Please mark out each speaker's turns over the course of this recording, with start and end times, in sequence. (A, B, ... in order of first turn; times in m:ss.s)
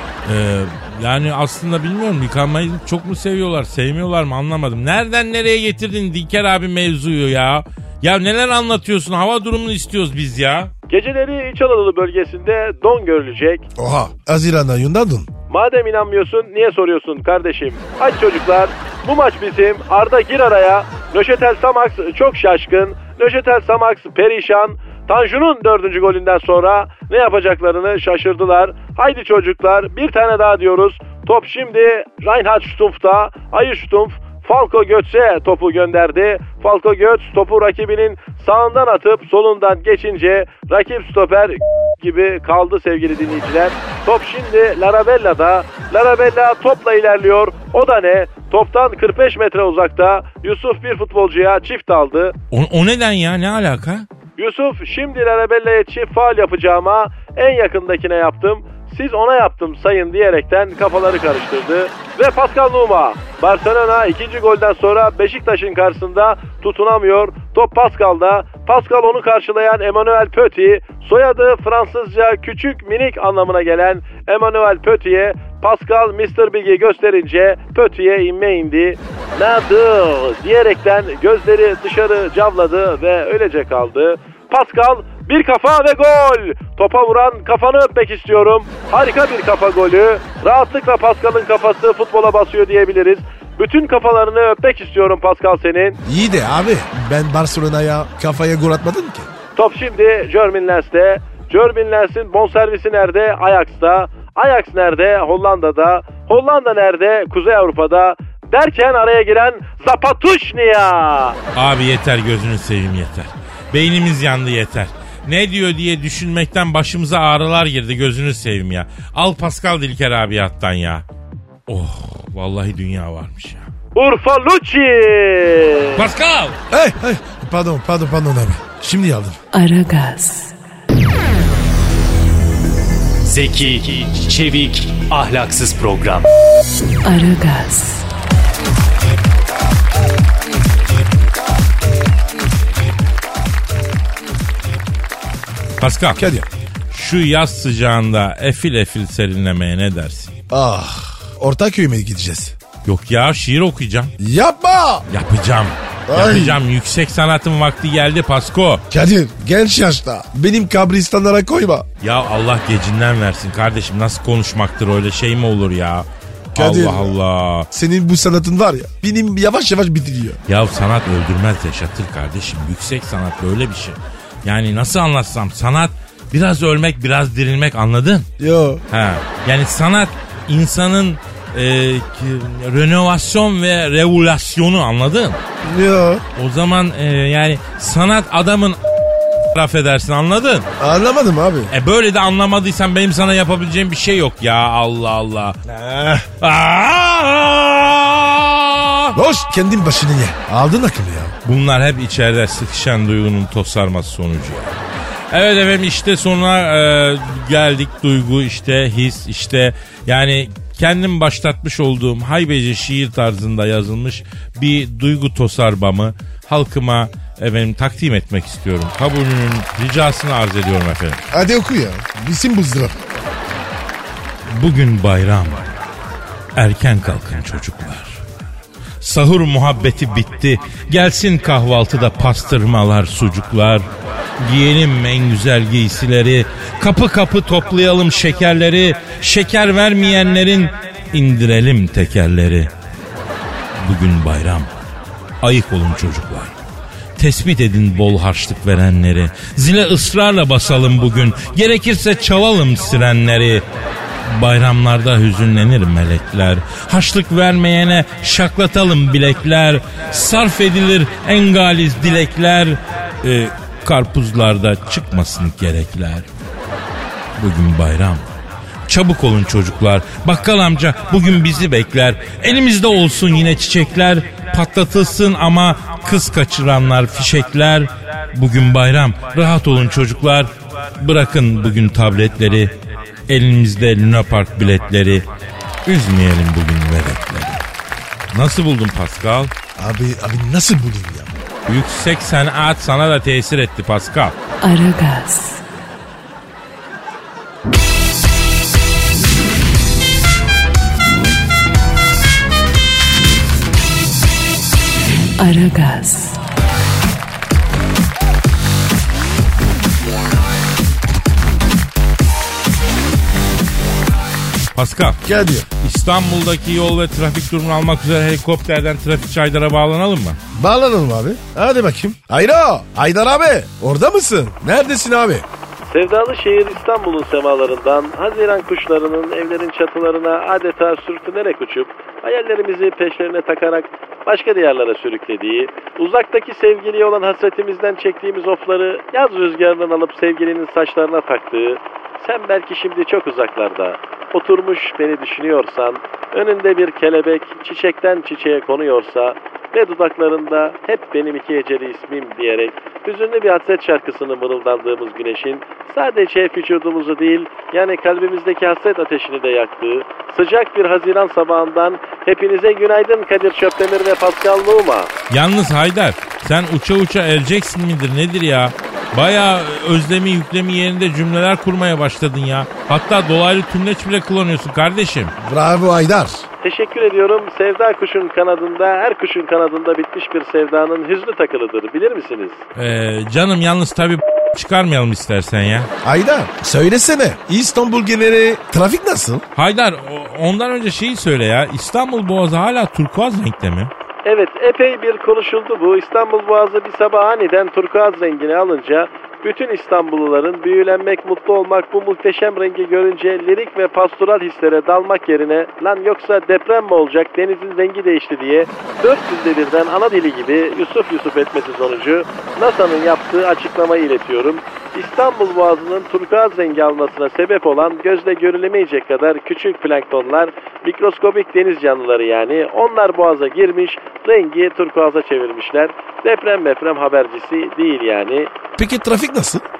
0:00.2-0:10.7 A
0:10.9-0:13.7 B
0:13.8-0:15.3 C
0:15.5-0:52.4 B
0:52.5-0:54.1 A
0:54.4-1:36.0 B
1:36.0-1:39.3 C
1:39.6-1:51.4 B
1:51.6-2:01.0 A
2:01.7-2:03.7 A
2:04.0-2:06.0 B
2:06.0-2:06.6 A
2:06.7-2:09.4 C
2:09.5-2:10.5 D
2:13.2-2:16.3 E
2:17.0-2:18.0 D
2:25.8-2:26.2 A
2:26.2-2:26.5 C
2:26.9-2:30.4 A
2:30.5-2:32.6 C
2:32.8-2:34.1 A
2:34.2-2:35.1 C
2:35.1-2:38.8 A
2:36.1-2:36.6 C
2:38.9-2:41.9 C
2:42.0-2:47.7 A
2:46.6-2:47.2 C
2:47.7-2:50.4 C
2:50.5-2:58.3 A
2:58.4-2:58.8 C
2:58.9-3:05.4 A
3:05.6-3:06.2 C
3:06.4-3:08.8 A
3:09.5-3:10.7 A
3:10.8-3:11.7 C
3:11.7-3:15.6 A
3:15.7-3:16.3 C
3:16.4-3:19.2 A
3:19.1-3:21.4 C
3:21.4-3:24.8 A
3:25.3-3:41.2 A
3:41.3-3:43.0 C
3:44.5-3:45.7 A
3:46.6-3:48.2 A
3:49.0-3:53.9 A
3:54.4-4:02.7 A
4:03.8-4:04.7 A
4:05.4-4:06.5 A
4:07.2-4:13.6 A
4:14.2-4:26.3 A
4:27.4-4:28.3 A
4:28.9-4:42.7 A
4:43.3-4:45.2 A
4:45.9-4:47.6 A
4:48.3-4:49.5 A
4:49.8-4:51.3 C
4:51.7-4:54.4 A
4:54.6-4:55.6 D
5:05.4-5:06.4 D
5:14.8-5:15.2 A
5:15.2-5:15.7 C
5:15.8-5:20.4 A
5:20.5-5:25.5 C
5:25.9-6:05.1 B
6:05.3-6:15.3 A
6:15.4-6:16.4 C
6:16.6-6:22.6 B
6:22.8-6:25.9 A
6:26.0-6:29.4 C
6:29.6-6:33.9 A
6:34.2-7:08.5 B
7:08.8-7:09.6 C